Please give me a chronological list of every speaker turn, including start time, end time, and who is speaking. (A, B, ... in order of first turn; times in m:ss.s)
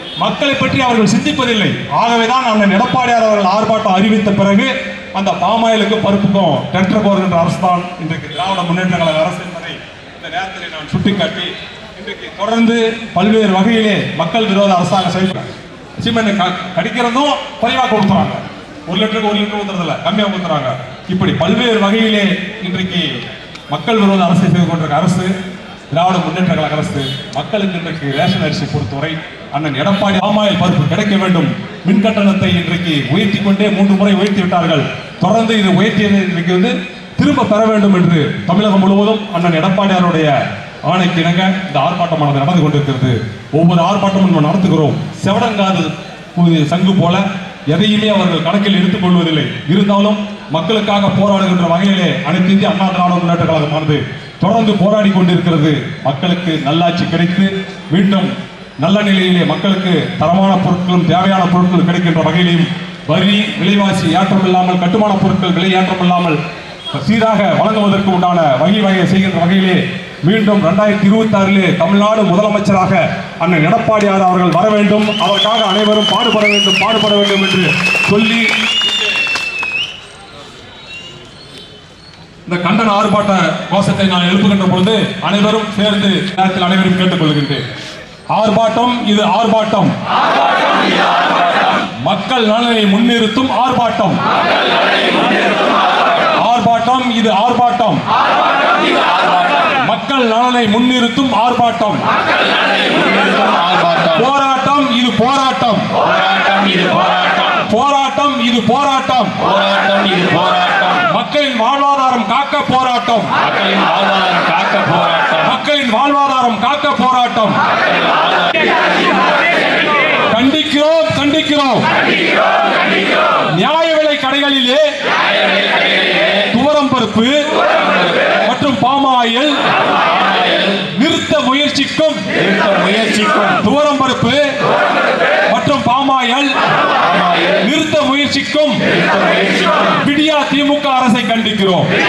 0:00.2-0:25.3 A
0:25.9-1:06.4 A
1:06.9-1:18.9 A
1:22.5-1:27.6 A
1:28.3-1:29.9 A
1:31.8-1:34.2 A
1:36.4-1:38.0 A
1:38.9-1:39.6 B
1:39.7-1:42.0 A
1:42.5-1:44.2 B
1:44.1-1:45.9 A
1:46.0-1:47.6 B
1:47.6-1:49.4 A
1:49.4-1:51.0 B
1:51.0-1:53.3 A
1:53.4-1:55.5 B
1:55.4-1:57.6 A
1:58.0-1:59.2 B
2:00.3-2:01.9 A
2:03.5-2:04.9 A
2:05.4-2:06.3 B
2:06.4-2:07.4 A
2:08.4-2:09.6 A
2:10.2-2:10.6 B
2:10.6-2:12.3 A
2:12.4-2:13.6 B
2:13.6-2:14.5 A
2:15.5-2:16.5 A
2:17.1-2:17.6 B
2:17.5-2:18.8 A
2:19.0-2:20.0 B
2:19.9-2:21.9 A